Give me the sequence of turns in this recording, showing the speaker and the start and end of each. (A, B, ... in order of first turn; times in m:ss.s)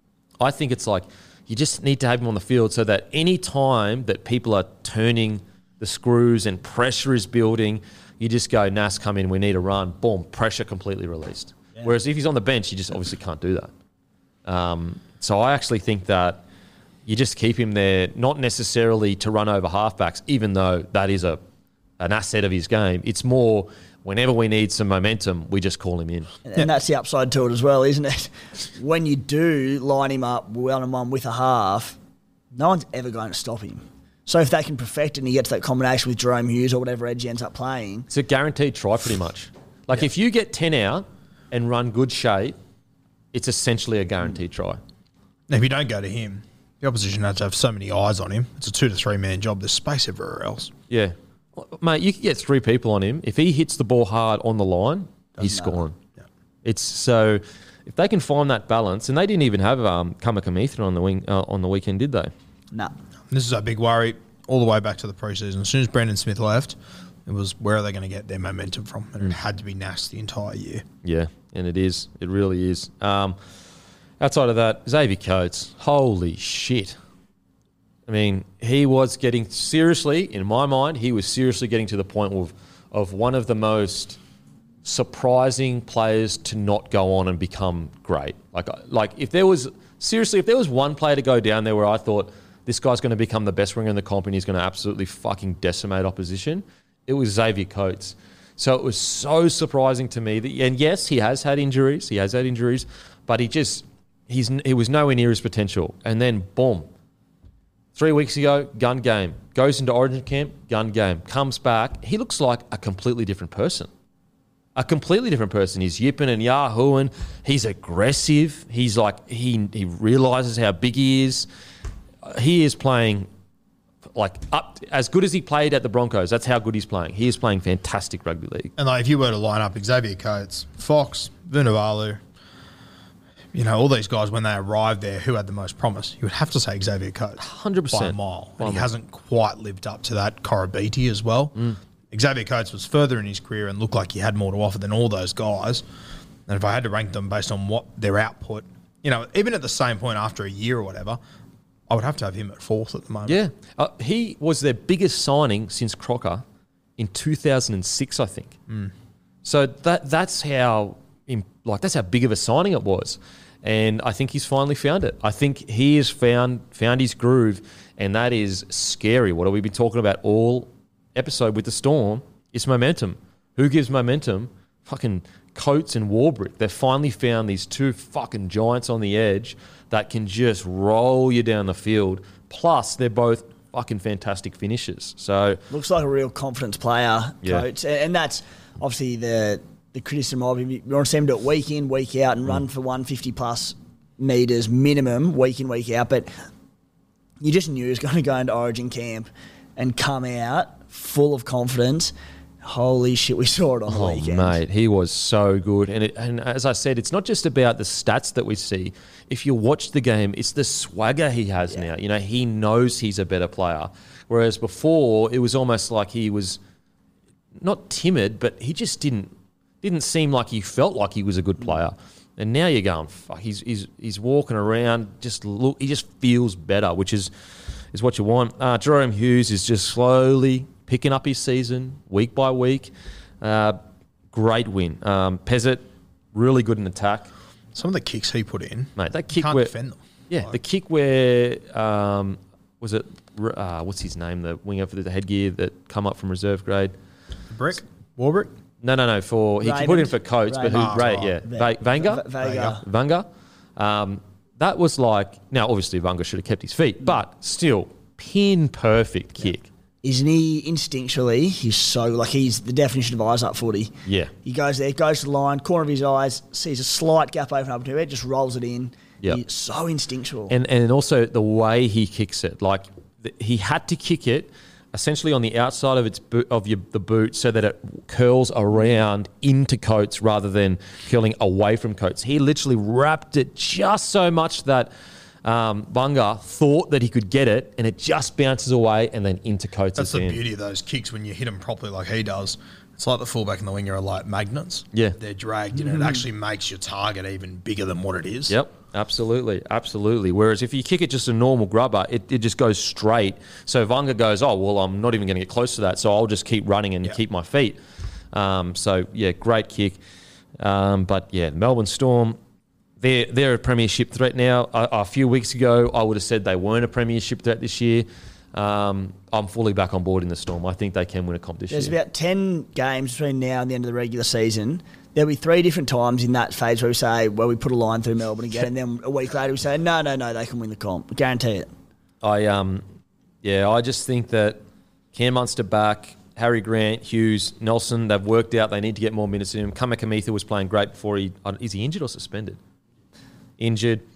0:00.4-0:13.7 A
0:14.4-0:16.4 A
0:17.0-0:21.4 A
0:22.0-0:26.3 A
0:26.4-0:32.0 B
0:32.5-0:38.1 B
0:38.1-0:42.6 A
0:43.3-0:44.8 A
0:45.5-0:50.7 C
0:50.9-0:56.0 A
0:55.4-0:55.8 B
0:56.6-1:02.3 A
1:03.3-1:10.8 C
1:11.0-1:13.4 A
1:14.2-1:17.0 A
1:18.1-1:24.2 A
1:24.8-1:46.9 A
1:48.0-1:53.9 A
1:54.8-2:01.5 A
2:02.2-2:03.3 A
2:04.1-2:08.7 A
2:08.8-2:12.2 C
2:13.5-2:25.8 C
2:17.4-2:18.9 A
2:26.5-2:31.2 C
2:31.9-2:33.4 C
2:33.2-2:36.4 A
2:37.0-2:38.6 A
2:39.4-3:05.6 A
3:05.7-3:16.3 B
3:17.4-3:24.6 B
3:23.9-3:36.6 A
3:37.6-3:47.3 A
3:47.9-3:52.9 A
3:53.4-3:53.8 A
3:54.3-3:55.8 A
3:56.3-3:57.3 A
3:57.7-4:00.5 C
3:59.0-3:59.7 A
4:00.3-4:06.9 A
4:07.5-4:08.5 C
4:08.8-4:12.3 A
4:09.6-4:12.8 B
4:10.7-4:11.4 C
4:12.4-4:12.8 C
4:12.8-4:13.2 A
4:13.8-4:19.7 A
4:20.0-4:30.5 B
4:24.0-4:24.3 A
4:30.5-4:44.9 A
4:45.4-4:50.4 A
4:49.9-4:58.6 C
4:58.5-5:07.8 A
5:08.3-5:10.0 A
5:10.6-5:12.4 A
5:13.0-5:22.0 A
5:21.7-5:31.7 B
5:32.2-5:32.8 A
5:33.4-5:34.6 A
5:35.1-5:42.6 A
5:43.6-5:44.0 A